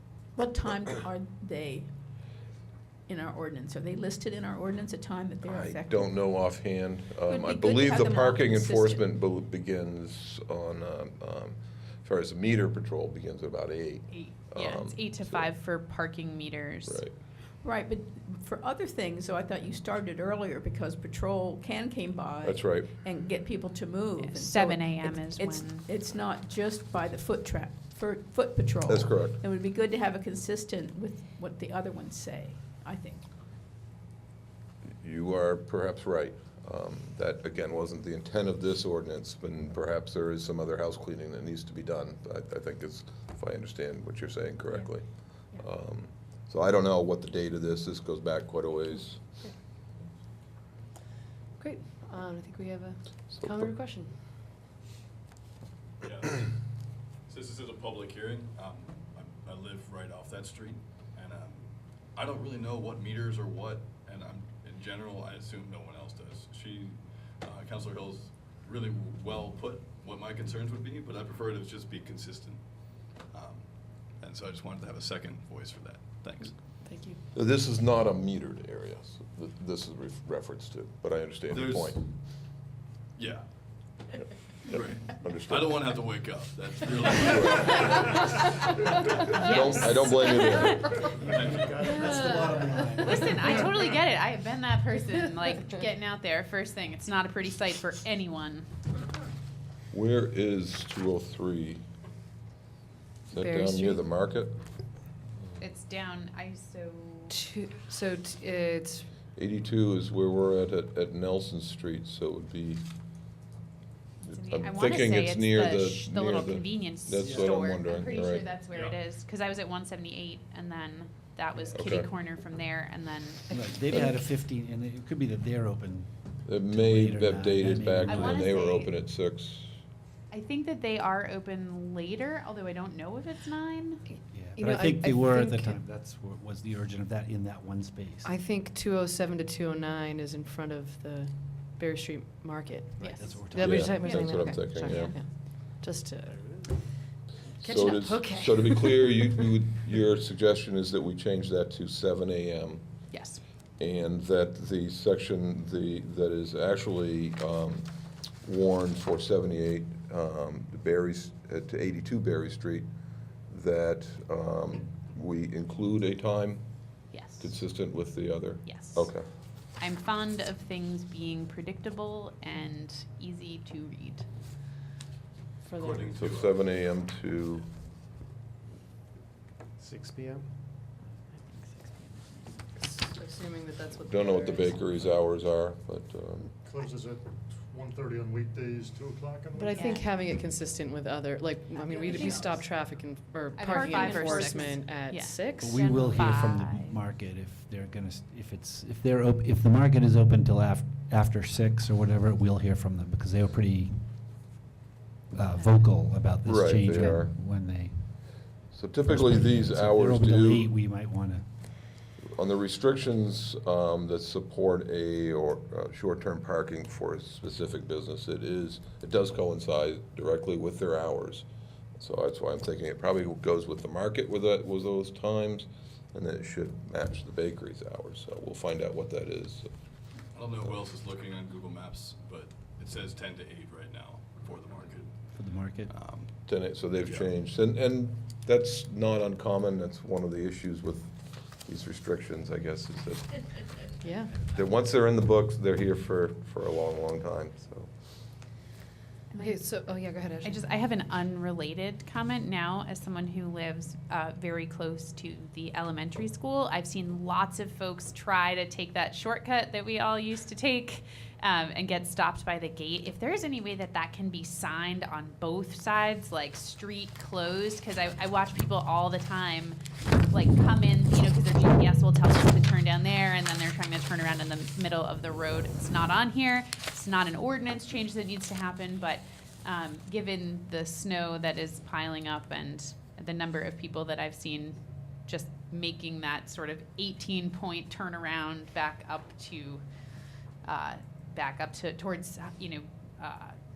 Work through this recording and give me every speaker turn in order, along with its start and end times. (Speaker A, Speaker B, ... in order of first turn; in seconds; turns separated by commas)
Speaker A: 0.3-1.9, Speaker A: 3.1-6.1, Speaker B: 5.4-15.5, Speaker A: 7.3-9.0, Speaker C: 14.1-17.1, Speaker B: 16.9-17.1, Speaker A: 17.6-33.2, Speaker B: 22.4-22.9, Speaker C: 24.2-25.9, Speaker B: 28.9-29.4, Speaker B: 35.0-49.3, Speaker D: 51.6-54.1, Speaker B: 53.3-53.7, Speaker E: 56.0-56.5, Speaker E: 57.3-72.6, Speaker E: 73.3-73.6, Speaker E: 74.2-76.5, Speaker D: 76.8-77.2, Speaker B: 77.3-82.0, Speaker E: 81.5-82.0, Speaker E: 83.2-83.4, Speaker B: 84.7-85.9, Speaker E: 84.7-88.4, Speaker B: 87.2-88.2, Speaker C: 88.0-91.0, Speaker B: 89.3-90.9, Speaker F: 91.0-93.8, Speaker E: 91.3-92.0, Speaker C: 91.8-98.7, Speaker G: 92.0-93.3, Speaker B: 99.9-101.8, Speaker B: 103.3-104.6, Speaker D: 103.3-104.0, Speaker C: 105.6-107.4, Speaker D: 107.3-109.1, Speaker B: 109.3-112.8, Speaker B: 114.2-118.5, Speaker C: 114.3-123.5, Speaker E: 118.7-119.0, Speaker B: 121.7-122.1, Speaker G: 123.5-128.7, Speaker D: 123.5-124.2, Speaker B: 126.5-129.7, Speaker C: 128.1-128.9, Speaker C: 130.3-134.0, Speaker G: 134.3-138.3, Speaker D: 134.6-135.8, Speaker D: 138.2-146.9, Speaker G: 143.0-144.1, Speaker C: 143.0-143.4, Speaker B: 143.5-145.1, Speaker C: 144.0-145.1, Speaker B: 147.6-152.8, Speaker D: 147.6-149.1, Speaker C: 153.1-153.4, Speaker B: 153.8-157.8, Speaker B: 158.4-162.9, Speaker B: 163.5-166.6, Speaker C: 167.1-167.6, Speaker B: 167.4-169.2, Speaker C: 168.7-169.1, Speaker C: 169.8-174.2, Speaker D: 175.7-176.1, Speaker E: 175.7-176.6, Speaker B: 176.1-177.7, Speaker C: 181.6-182.4, Speaker D: 182.8-184.9, Speaker B: 184.0-186.5, Speaker F: 186.6-190.0, Speaker D: 189.5-195.8, Speaker C: 189.7-190.1, Speaker C: 192.1-192.5, Speaker C: 193.5-197.0, Speaker G: 195.6-204.3, Speaker G: 205.3-208.3, Speaker B: 206.4-207.3, Speaker B: 208.7-210.7, Speaker G: 209.0-211.4, Speaker B: 212.3-221.4, Speaker B: 222.0-229.7, Speaker E: 230.3-235.3, Speaker G: 235.3-235.9, Speaker E: 235.9-236.3, Speaker B: 236.4-243.5, Speaker E: 237.0-237.3, Speaker D: 244.0-244.4, Speaker B: 244.4-247.9, Speaker C: 249.3-249.7, Speaker D: 249.4-250.6, Speaker C: 250.4-269.8, Speaker C: 270.3-289.8, Speaker C: 290.6-293.5